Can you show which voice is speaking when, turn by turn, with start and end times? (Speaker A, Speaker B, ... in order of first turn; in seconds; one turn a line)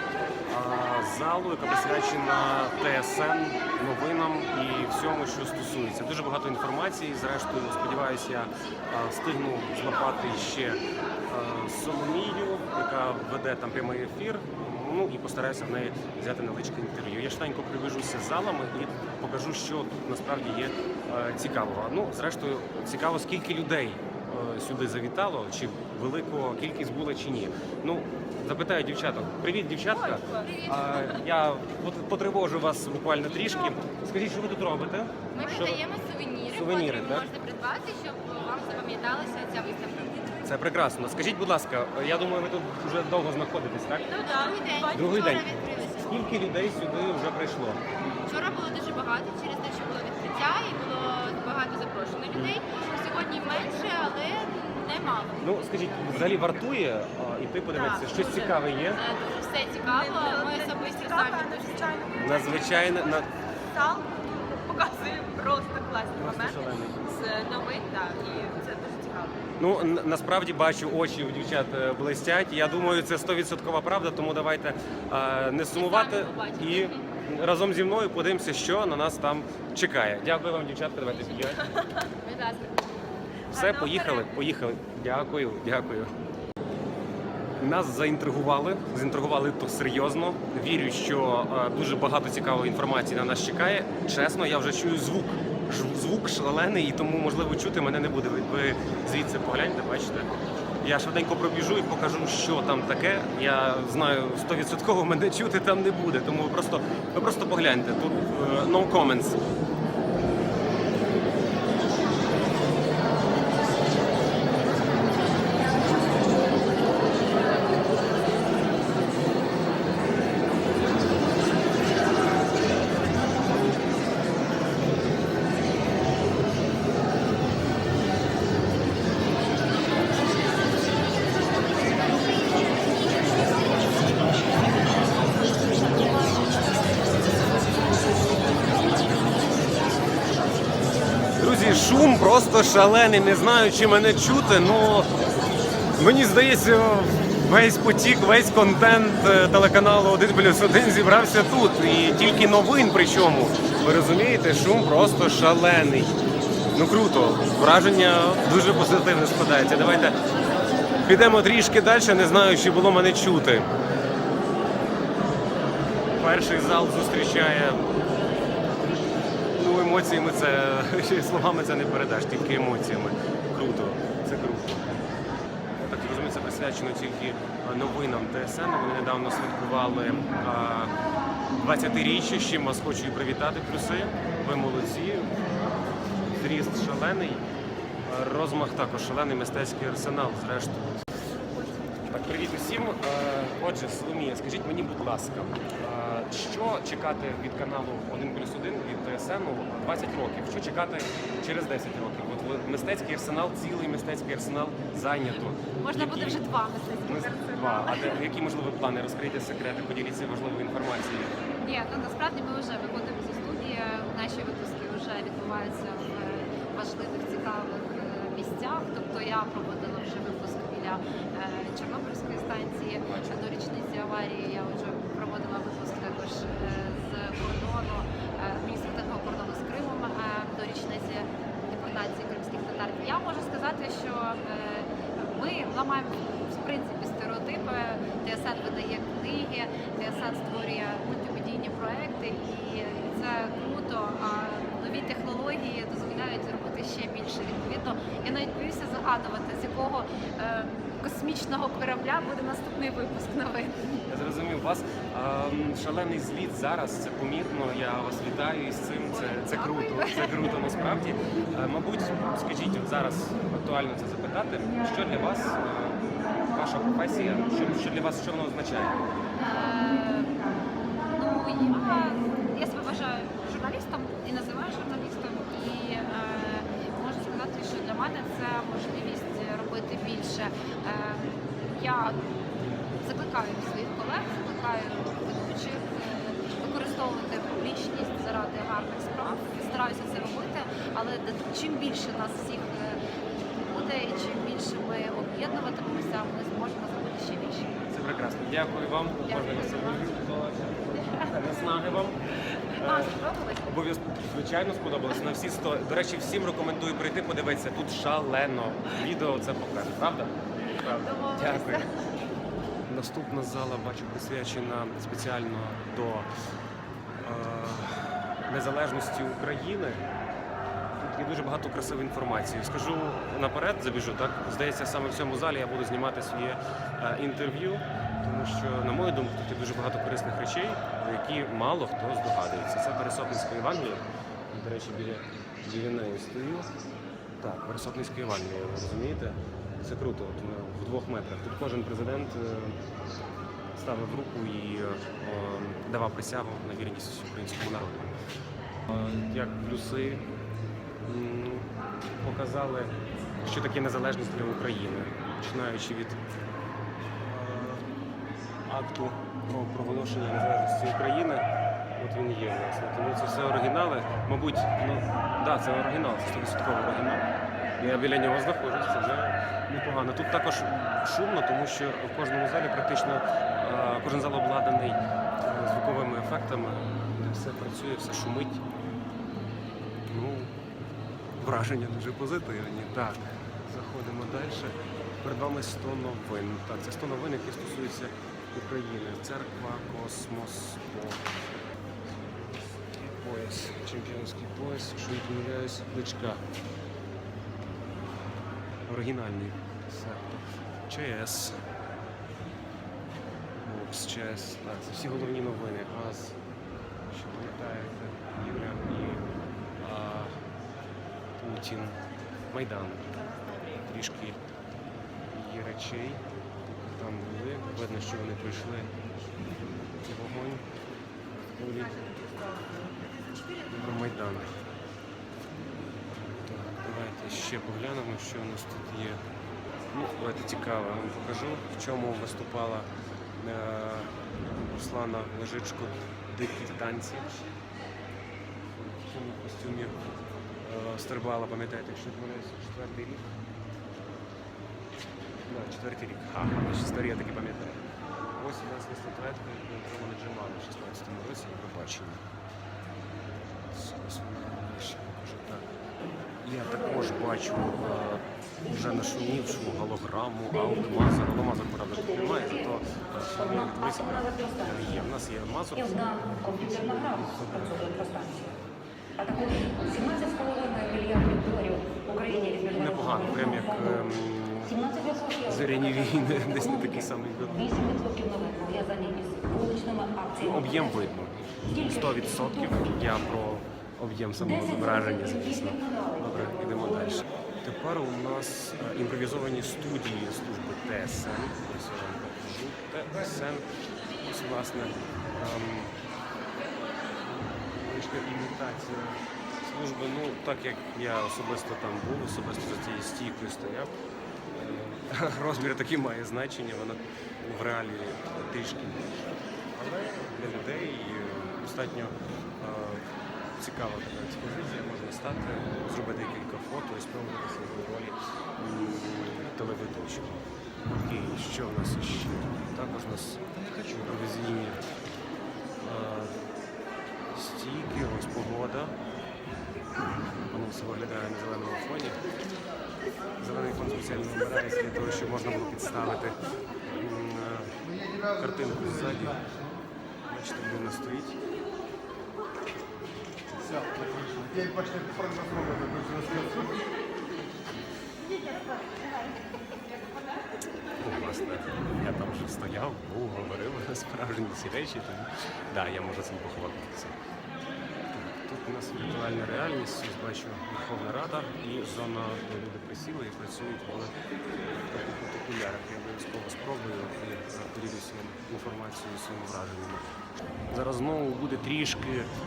Speaker A: 0.5-35.8
Speaker B: 30.0-31.2
Speaker B: 33.4-33.7
Speaker B: 35.3-40.5
Speaker A: 36.5-37.3
Speaker A: 40.4-44.1
Speaker B: 44.0-46.2
Speaker C: 44.3-45.0
Speaker A: 44.9-47.8
Speaker B: 48.2-55.5
Speaker A: 52.3-52.6
Speaker A: 55.4-59.0
Speaker B: 57.9-62.2
Speaker C: 59.9-63.1
Speaker A: 62.1-63.3
Speaker C: 63.7-69.4
Speaker A: 66.1-67.0
Speaker B: 67.0-68.7
Speaker A: 69.6-81.7
Speaker B: 75.7-77.0
Speaker B: 81.7-82.8
Speaker B: 83.5-84.3
Speaker A: 83.5-86.1
Speaker A: 87.6-100.3
Speaker A: 100.8-109.4
Speaker A: 141.4-145.1
Speaker A: 146.0-156.2
Speaker A: 156.7-160.2
Speaker A: 161.1-163.7
Speaker A: 166.2-167.9
Speaker A: 169.5-174.9
Speaker A: 175.8-180.9
Speaker A: 181.6-185.8
Speaker A: 186.3-187.4
Speaker A: 188.1-191.2
Speaker A: 192.1-206.5
Speaker D: 205.7-208.2
Speaker A: 207.0-211.4
Speaker D: 211.6-253.7
Speaker A: 223.0-223.4
Speaker A: 254.1-269.0
Speaker D: 259.0-260.5
Speaker D: 269.4-270.4
Speaker D: 271.1-282.3
Speaker D: 283.0-293.0
Speaker D: 293.7-297.7
Speaker A: 297.9-302.2
Speaker D: 299.2-300.1
Speaker D: 301.0-301.7
Speaker D: 302.7-303.6
Speaker A: 302.8-311.9
Speaker D: 311.0-311.9
Speaker A: 312.9-316.3
Speaker A: 317.2-320.0
Speaker A: 320.9-336.7
Speaker A: 337.4-342.8
Speaker A: 343.8-348.1
Speaker A: 348.9-350.3
Speaker A: 351.1-351.7
Speaker A: 352.2-356.2
Speaker A: 357.2-357.9
Speaker A: 358.7-361.4
Speaker A: 362.0-367.2
Speaker A: 367.8-378.6
Speaker A: 380.1-380.5
Speaker A: 381.4-391.4
Speaker A: 392.1-396.4
Speaker A: 398.9-401.6
Speaker A: 403.6-406.4
Speaker A: 407.1-409.3
Speaker A: 409.8-410.4
Speaker A: 411.4-414.4
Speaker A: 415.3-418.9
Speaker A: 420.0-420.6
Speaker A: 421.5-422.1
Speaker A: 423.4-424.5
Speaker A: 426.4-429.2
Speaker A: 429.9-437.4
Speaker A: 438.8-440.0
Speaker A: 440.6-443.3
Speaker A: 445.5-452.2
Speaker A: 453.4-455.7
Speaker A: 456.4-468.5
Speaker E: 469.3-472.6
Speaker A: 472.4-478.1
Speaker E: 478.0-480.2
Speaker A: 480.3-493.7
Speaker A: 494.2-495.9
Speaker A: 497.2-503.9
Speaker A: 504.5-513.0
Speaker A: 513.6-524.9
Speaker A: 525.8-526.4
Speaker A: 527.3-529.0
Speaker A: 530.5-532.2
Speaker A: 533.4-536.4
Speaker A: 536.9-539.5
Speaker A: 540.3-541.4
Speaker A: 543.7-546.7
Speaker A: 551.0-557.2
Speaker A: 558.1-564.1
Speaker A: 564.7-570.0
Speaker A: 570.7-572.3